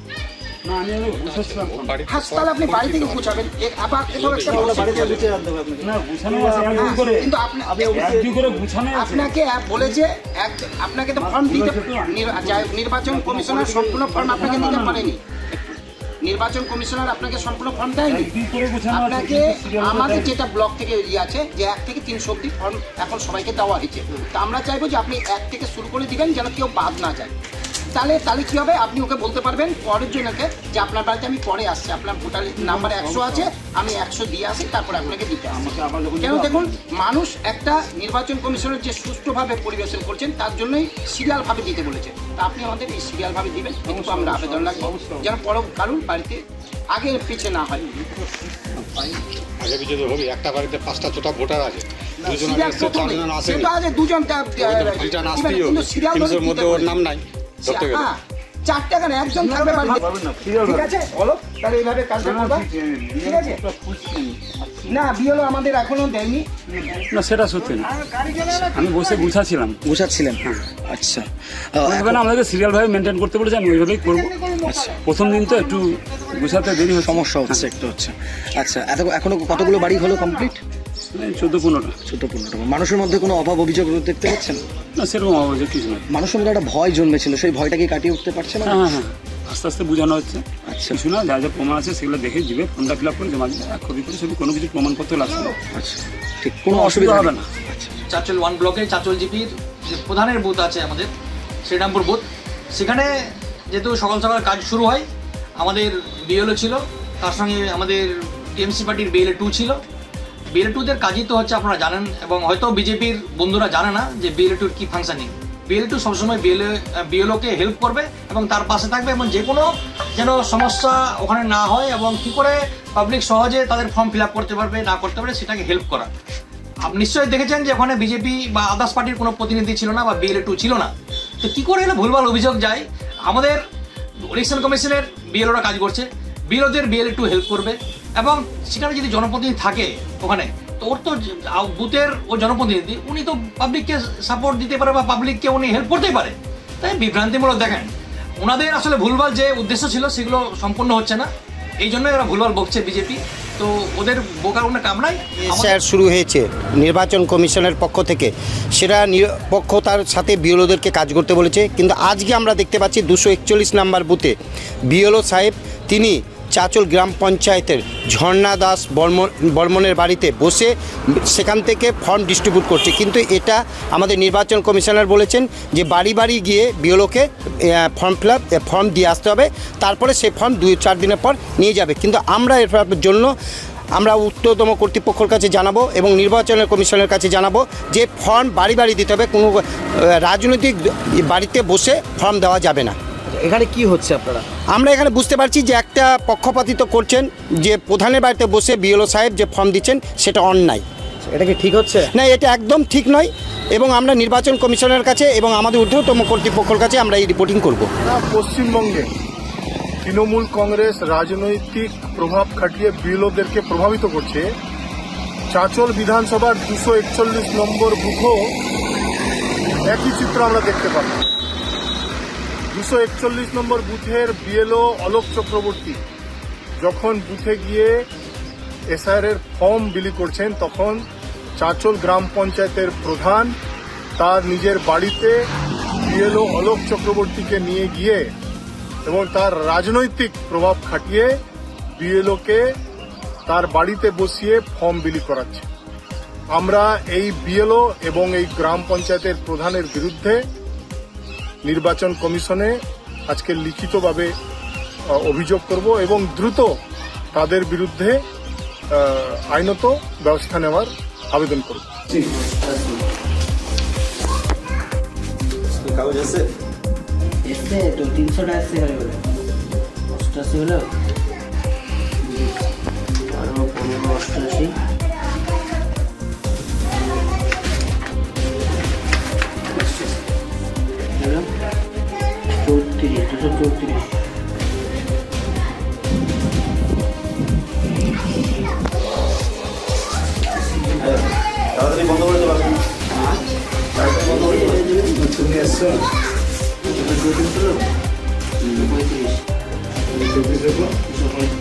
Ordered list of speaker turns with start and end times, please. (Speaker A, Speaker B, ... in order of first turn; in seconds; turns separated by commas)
Speaker A: 0.6-2.0, Speaker B: 1.2-3.0, Speaker C: 2.0-5.2, Speaker B: 4.2-4.9, Speaker D: 4.4-7.0, Speaker A: 4.5-5.2, Speaker A: 5.8-7.3, Speaker C: 6.8-8.1, Speaker D: 7.7-8.6, Speaker A: 7.8-9.9, Speaker C: 8.9-18.3, Speaker A: 11.2-15.1, Speaker A: 18.0-20.3, Speaker C: 18.9-27.3, Speaker C: 27.9-47.9, Speaker A: 32.6-33.4, Speaker A: 35.5-36.7, Speaker A: 43.9-45.3, Speaker A: 48.9-49.2, Speaker B: 49.6-53.5, Speaker C: 52.2-56.9, Speaker B: 54.6-57.1, Speaker C: 57.6-63.6, Speaker A: 59.4-60.9, Speaker A: 62.2-64.9, Speaker C: 64.9-66.5, Speaker A: 66.7-69.8, Speaker C: 68.1-68.5, Speaker D: 69.8-72.2, Speaker A: 71.8-74.5, Speaker D: 74.6-75.0, Speaker A: 75.0-77.6, Speaker D: 76.7-80.6, Speaker A: 81.1-81.9, Speaker D: 82.0-84.6, Speaker A: 85.0-86.0, Speaker D: 86.1-89.0, Speaker A: 88.6-95.5, Speaker D: 90.6-91.0, Speaker D: 95.7-98.0, Speaker A: 96.7-97.5, Speaker E: 98.1-101.1, Speaker E: 101.7-105.0, Speaker E: 105.6-109.8, Speaker E: 110.5-126.1, Speaker E: 126.8-130.9, Speaker E: 131.4-133.6, Speaker E: 134.3-151.3, Speaker E: 151.8-155.8, Speaker F: 155.4-164.3, Speaker F: 164.9-183.3, Speaker F: 183.9-192.9, Speaker D: 193.5-194.4, Speaker F: 194.7-200.8, Speaker F: 202.0-207.9, Speaker G: 208.0-209.1, Speaker G: 210.0-214.5, Speaker G: 215.5-218.5, Speaker G: 219.8-221.2, Speaker G: 222.7-226.0, Speaker G: 226.8-228.1, Speaker G: 228.9-231.0, Speaker G: 231.6-233.5, Speaker G: 234.2-235.4, Speaker G: 236.0-238.3, Speaker G: 239.0-241.3, Speaker G: 242.0-242.7, Speaker G: 243.5-245.7, Speaker G: 246.5-250.4, Speaker G: 251.6-254.3, Speaker G: 255.1-256.8, Speaker G: 257.3-258.2, Speaker G: 258.9-261.9, Speaker H: 262.1-263.0, Speaker D: 265.9-266.4, Speaker H: 267.4-269.2, Speaker H: 270.1-270.9, Speaker H: 273.3-274.7, Speaker H: 281.1-281.5, Speaker H: 282.6-284.1, Speaker D: 291.7-292.7, Speaker D: 294.0-295.0, Speaker H: 294.2-295.8, Speaker A: 295.2-295.8, Speaker H: 296.9-297.8, Speaker H: 298.7-299.4, Speaker A: 300.2-300.9, Speaker H: 301.1-301.5